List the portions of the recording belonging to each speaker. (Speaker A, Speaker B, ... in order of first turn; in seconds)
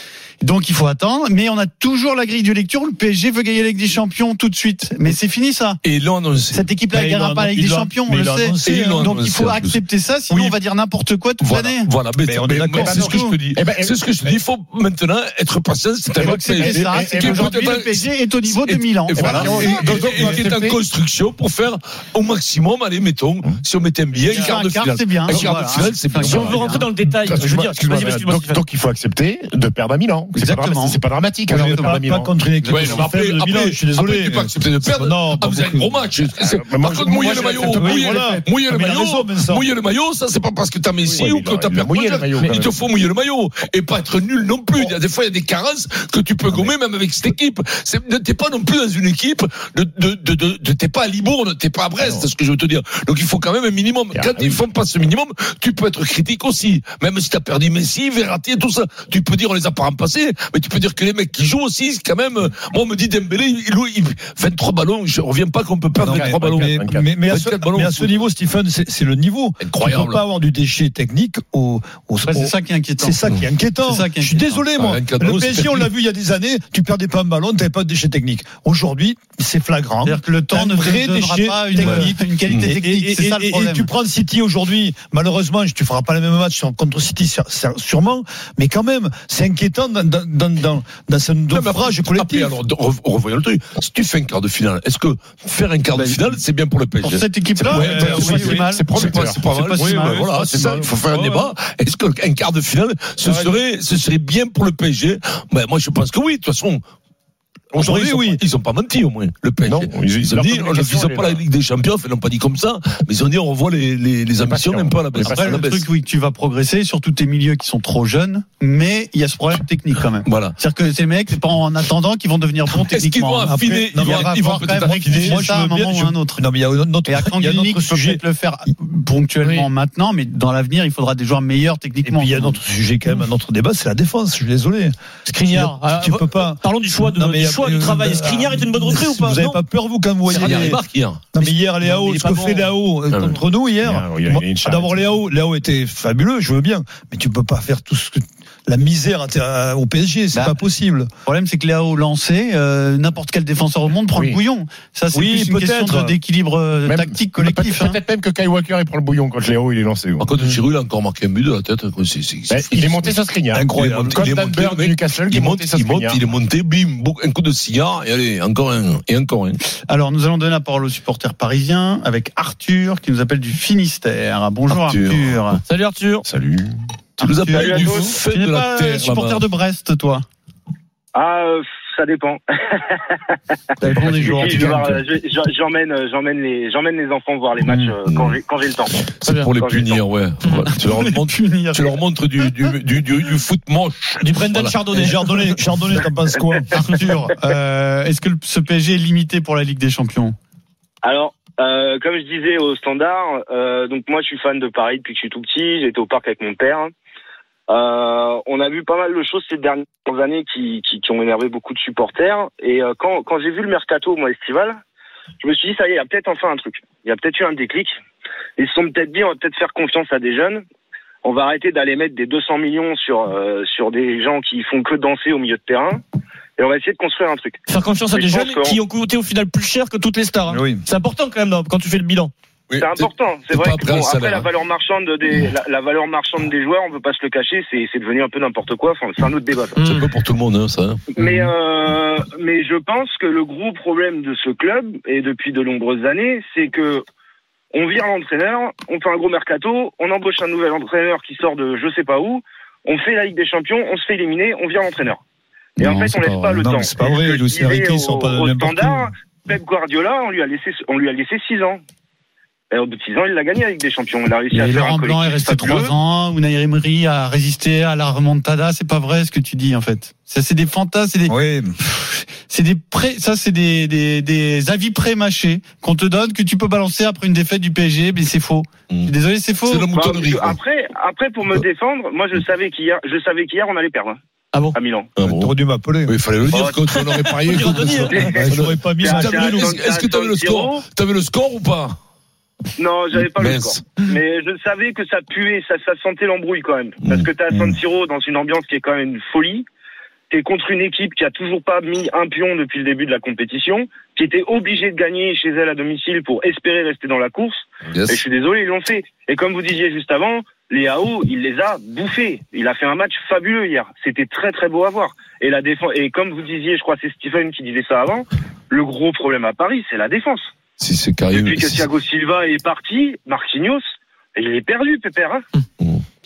Speaker A: 0.4-5.8, 6.5-11.9, 12.9-13.3, 16.2-20.4, 24.3-26.9, 30.3-32.0, 72.2-73.2, 73.8-74.6, 80.0-83.9, 95.9-96.4, 97.0-100.9, 115.1-126.4, 127.0-132.6, 150.3-150.6, 151.2-158.0, 169.9-175.6, 177.2-180.2, 183.8-185.0, 187.6-187.9, 190.8-192.0, 196.7-200.3, 264.5-279.9
Speaker B: 5.8-6.6, 8.6-10.6, 11.4-26.7, 32.6-68.2, 69.6-70.2, 74.8-75.9, 81.8-82.7, 91.5-106.8, 107.7-115.8, 120.2-120.5, 122.7-125.4, 140.3-143.4, 160.2-163.2, 163.7-169.6, 174.7-175.4, 177.2-179.4, 184.1-184.7, 188.0-194.8, 232.7-234.5, 239.8-241.5, 279.6-280.6, 285.2-285.5, 286.1-291.9, 293.1-293.9, 297.0-297.3, 307.9-308.2, 320.8-321.9
Speaker C: 6.9-9.1, 12.2-13.2, 31.5-36.0, 37.5-39.7, 66.0-92.6, 97.7-98.6, 100.6-101.5, 107.7-108.4, 123.5-128.2, 132.0-140.8, 141.3-151.1, 155.1-156.2, 163.5-164.2, 194.9-196.7, 230.5-230.8, 255.8-259.1, 271.2-271.7, 285.2-286.1, 288.1-289.8
Speaker D: 12.7-14.3, 16.2-17.7, 19.1-20.8, 27.0-32.3, 36.4-38.5, 41.0-42.8, 52.0-52.3, 54.1-54.6, 66.1-67.0, 97.8-100.0, 103.2-103.5, 109.7-111.4, 114.4-115.6, 143.8-145.1, 154.1-154.4, 156.8-160.3, 162.5-166.2, 176.2-176.8
Speaker E: 26.2-28.6, 42.4-42.6, 129.4-129.7, 135.2-139.6, 140.4-140.8, 175.7-176.2, 189.2-189.5, 190.4-190.7, 194.2-195.5, 227.7-232.3, 239.8-240.1, 287.5-288.1
Speaker F: 177.6-178.1, 181.1-183.3, 184.1-188.9, 189.5-190.1, 201.0-206.9, 207.7-214.8, 215.4-217.9, 218.6-220.6, 221.2-226.0, 226.6-227.6, 228.1-228.8, 232.8-239.8, 241.1-247.0, 247.7-255.2, 255.8-261.8, 262.7-265.9, 279.9-284.2, 284.7-285.1, 286.4-288.4, 288.9-290.8, 292.8-299.6, 300.3-320.5, 321.3-323.8, 324.4-325.4